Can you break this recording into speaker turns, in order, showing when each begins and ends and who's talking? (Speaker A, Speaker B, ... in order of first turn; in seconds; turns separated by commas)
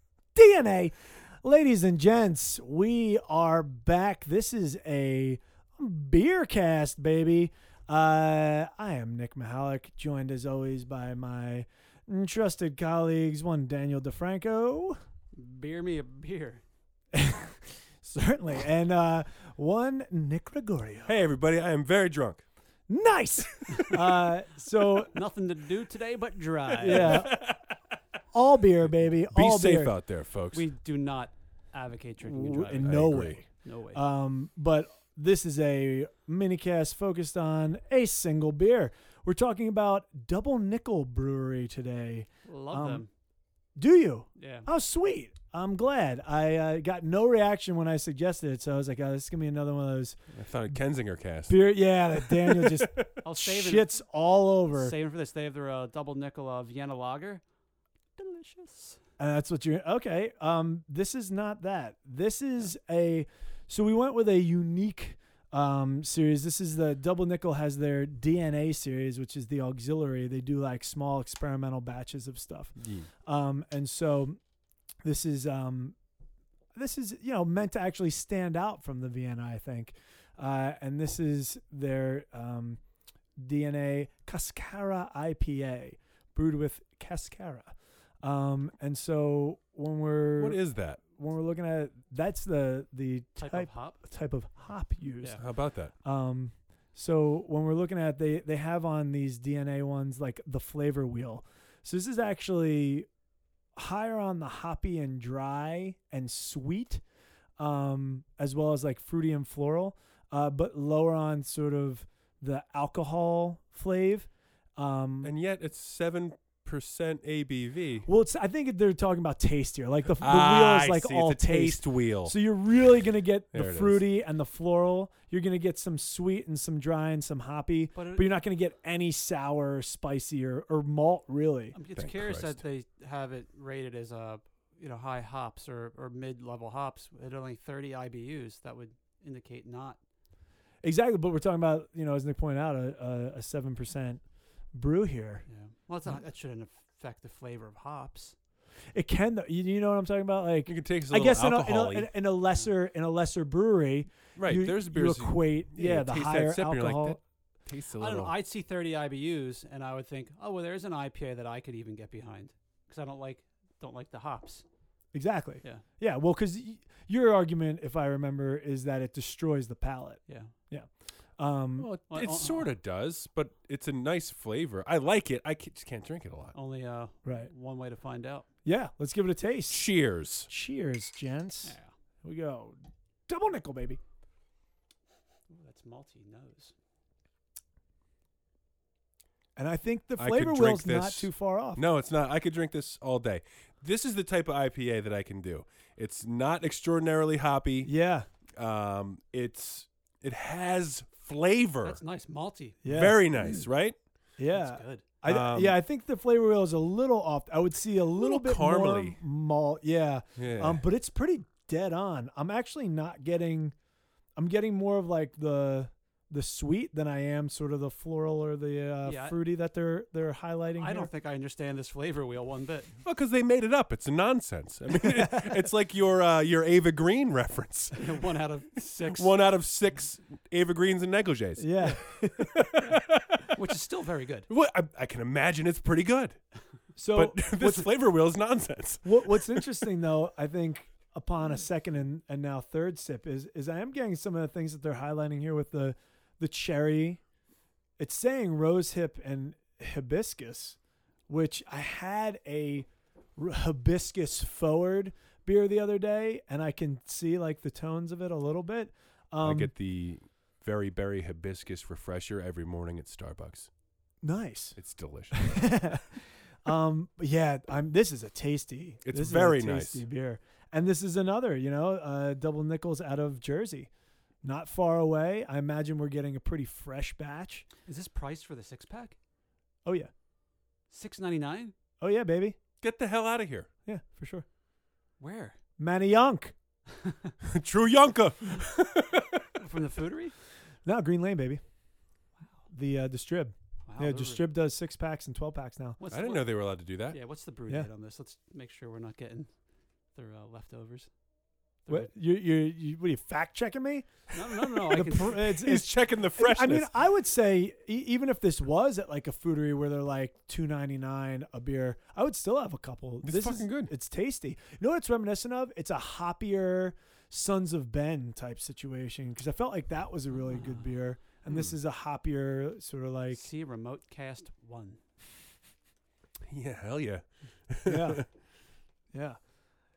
Speaker A: 0.3-15.0, Speaker B: 15.3-16.6, Speaker A: 17.1-21.2, Speaker C: 21.1-22.4, Speaker A: 22.9-25.1, Speaker B: 25.1-27.2, Speaker A: 26.8-27.5, Speaker C: 26.9-27.8, Speaker A: 28.3-29.9, Speaker C: 28.8-30.6, Speaker B: 30.5-34.0, Speaker A: 32.3-43.0, Speaker C: 32.8-33.4, Speaker B: 42.5-43.1, Speaker A: 43.8-50.2, Speaker B: 44.4-44.7, Speaker C: 50.3-53.1, Speaker A: 51.5-55.0, Speaker B: 53.2-54.0, Speaker B: 54.7-57.4, Speaker B: 58.2-59.0, Speaker A: 59.2-74.4, Speaker C: 72.8-73.1, Speaker A: 75.0-76.0, Speaker A: 76.8-82.8, Speaker A: 83.4-95.4, Speaker C: 90.4-91.0, Speaker B: 93.4-94.0, Speaker C: 95.4-95.9, Speaker A: 96.0-103.1, Speaker A: 103.8-107.0, Speaker A: 107.6-115.3, Speaker C: 115.2-118.1, Speaker A: 118.1-131.8, Speaker C: 120.2-122.4, Speaker C: 123.5-124.0, Speaker B: 127.9-128.3, Speaker B: 131.7-140.0, Speaker C: 132.0-132.6, Speaker A: 140.8-144.2, Speaker A: 144.7-145.5, Speaker B: 145.5-148.3, Speaker A: 148.9-157.2, Speaker C: 150.7-152.1, Speaker C: 154.4-158.3, Speaker B: 158.0-164.6, Speaker A: 165.1-171.9, Speaker C: 171.8-176.6, Speaker B: 172.1-172.7, Speaker B: 176.5-178.5, Speaker A: 177.2-177.5, Speaker A: 178.7-179.8, Speaker C: 179.7-180.5, Speaker A: 180.5-184.0, Speaker B: 181.6-181.9, Speaker B: 185.5-186.7, Speaker A: 189.6-191.8, Speaker C: 190.2-197.9, Speaker A: 197.8-198.3, Speaker C: 198.6-202.0, Speaker B: 201.8-202.8, Speaker A: 202.8-203.2, Speaker C: 202.9-204.0, Speaker B: 203.3-203.7, Speaker A: 204.4-213.8, Speaker B: 204.5-205.1, Speaker C: 205.2-205.8, Speaker C: 208.2-209.2, Speaker C: 210.4-210.8, Speaker A: 214.4-221.1, Speaker B: 219.1-219.4, Speaker B: 220.8-222.9, Speaker C: 223.1-228.2, Speaker B: 228.0-229.3, Speaker C: 228.8-233.6, Speaker A: 231.6-232.6, Speaker B: 232.8-234.5, Speaker C: 234.5-236.4, Speaker A: 237.0-237.9, Speaker C: 237.1-239.8, Speaker A: 239.0-247.2, Speaker A: 248.0-250.8, Speaker A: 251.3-259.7, Speaker C: 259.4-263.7, Speaker A: 264.2-264.8, Speaker C: 264.8-266.0, Speaker A: 265.3-273.9, Speaker C: 269.0-270.0, Speaker A: 274.4-277.6, Speaker B: 277.9-279.1, Speaker A: 279.8-280.1, Speaker B: 280.9-281.7, Speaker A: 282.0-282.6, Speaker C: 282.8-283.7, Speaker A: 283.9-284.4, Speaker B: 285.2-285.6, Speaker A: 285.8-286.5, Speaker B: 286.9-287.3, Speaker C: 287.4-289.4, Speaker B: 289.6-290.3, Speaker A: 290.8-291.6, Speaker A: 292.7-296.0, Speaker B: 293.9-294.5, Speaker B: 296.0-296.5, Speaker C: 296.1-297.2, Speaker B: 297.1-299.5, Speaker B: 300.1-301.1, Speaker A: 301.9-323.4, Speaker B: 304.3-305.4, Speaker C: 305.3-306.9, Speaker C: 313.2-313.9, Speaker B: 320.4-320.9, Speaker C: 321.5-321.7, Speaker B: 323.3-325.0, Speaker C: 326.5-328.2, Speaker A: 327.8-328.2, Speaker A: 329.1-329.4